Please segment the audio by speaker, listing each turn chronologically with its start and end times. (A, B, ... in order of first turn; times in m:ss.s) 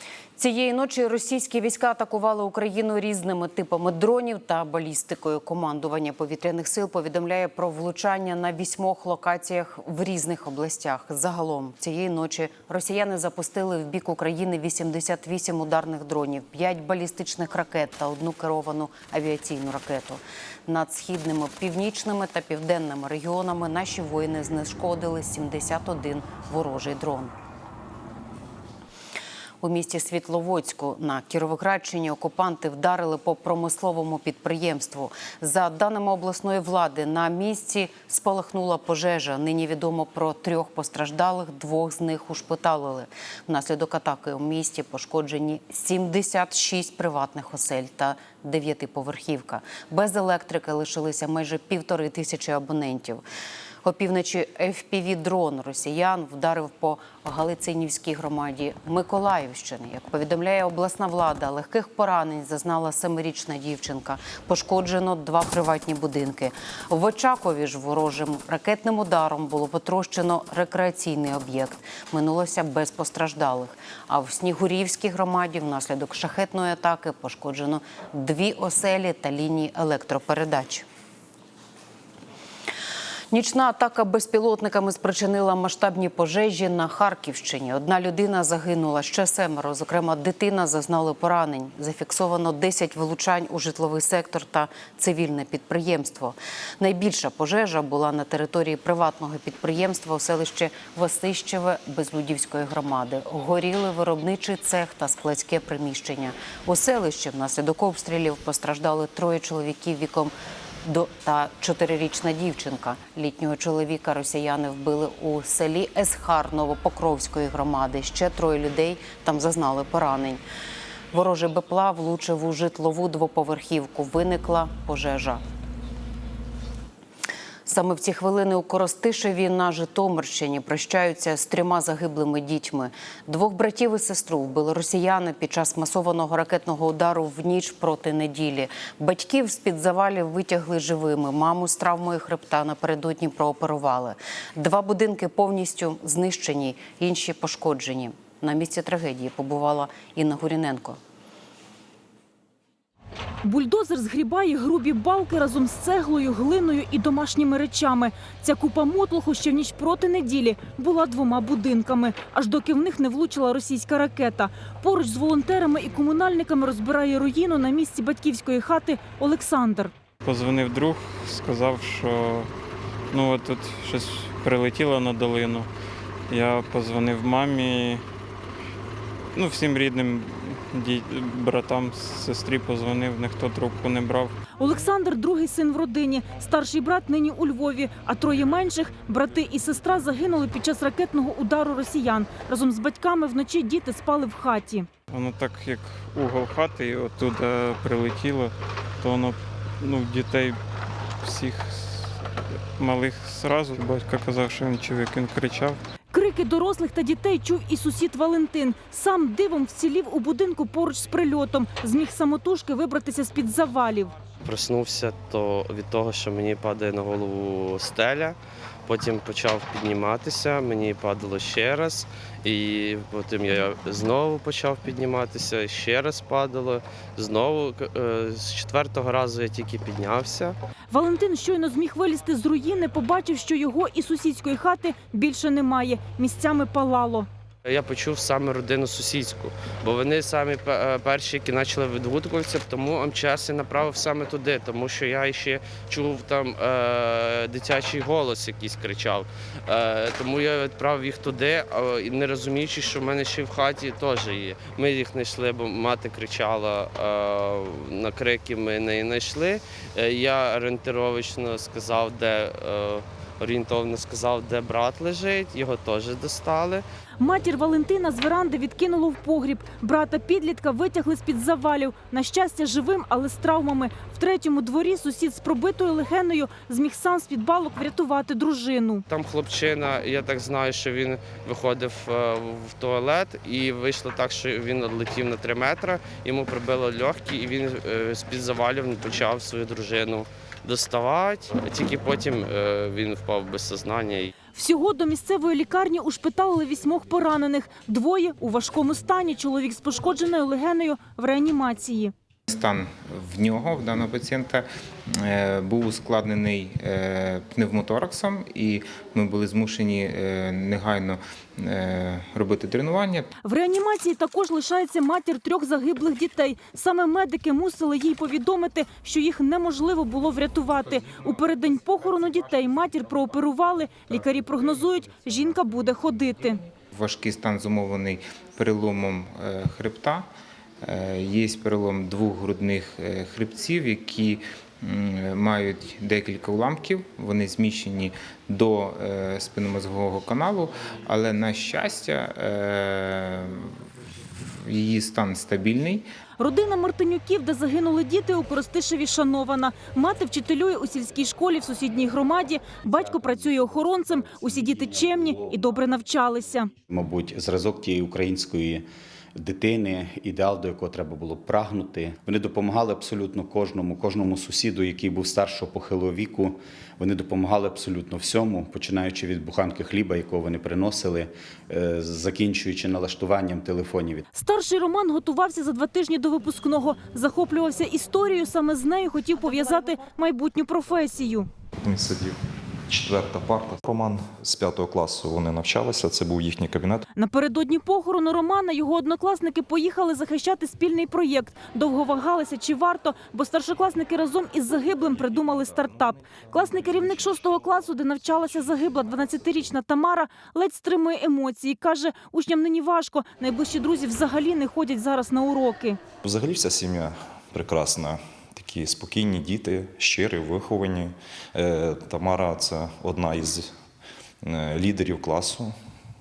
0:00.4-0:27.3 A
0:29.6-0:53.2 A
0:53.8-1:20.8 A
1:23.3-1:50.3 A
1:50.8-2:00.4 A
2:01.1-2:05.4 A
2:07.6-2:31.0 A
2:33.4-2:49.9 B
2:50.2-2:52.5 C
2:53.1-2:55.7 C
2:56.3-2:58.0 C
2:59.3-3:04.4 C
3:04.5-3:14.9 B
3:15.1-3:20.6 C
3:21.2-3:22.2 C
3:22.8-3:25.8 C
3:26.1-3:34.1 B
3:34.4-3:50.6 D
3:50.9-3:57.3 B
3:57.6-4:26.8 D
4:27.2-4:39.0 B
4:39.1-4:54.3 D
4:54.5-5:02.1 B
5:02.5-5:13.3 E
5:13.4-5:26.6 B
5:26.9-5:30.3 E
5:30.8-5:43.8 E
5:44.4-5:46.0 E
5:46.4-5:56.7 B
5:53.0-5:55.7 F
5:56.9-6:14.2 F
6:14.3-6:21.5 B
6:21.8-6:22.4 G
6:22.9-6:27.0 G
6:27.1-6:46.0 B
6:46.2-6:53.7 G
6:54.4-6:55.7 G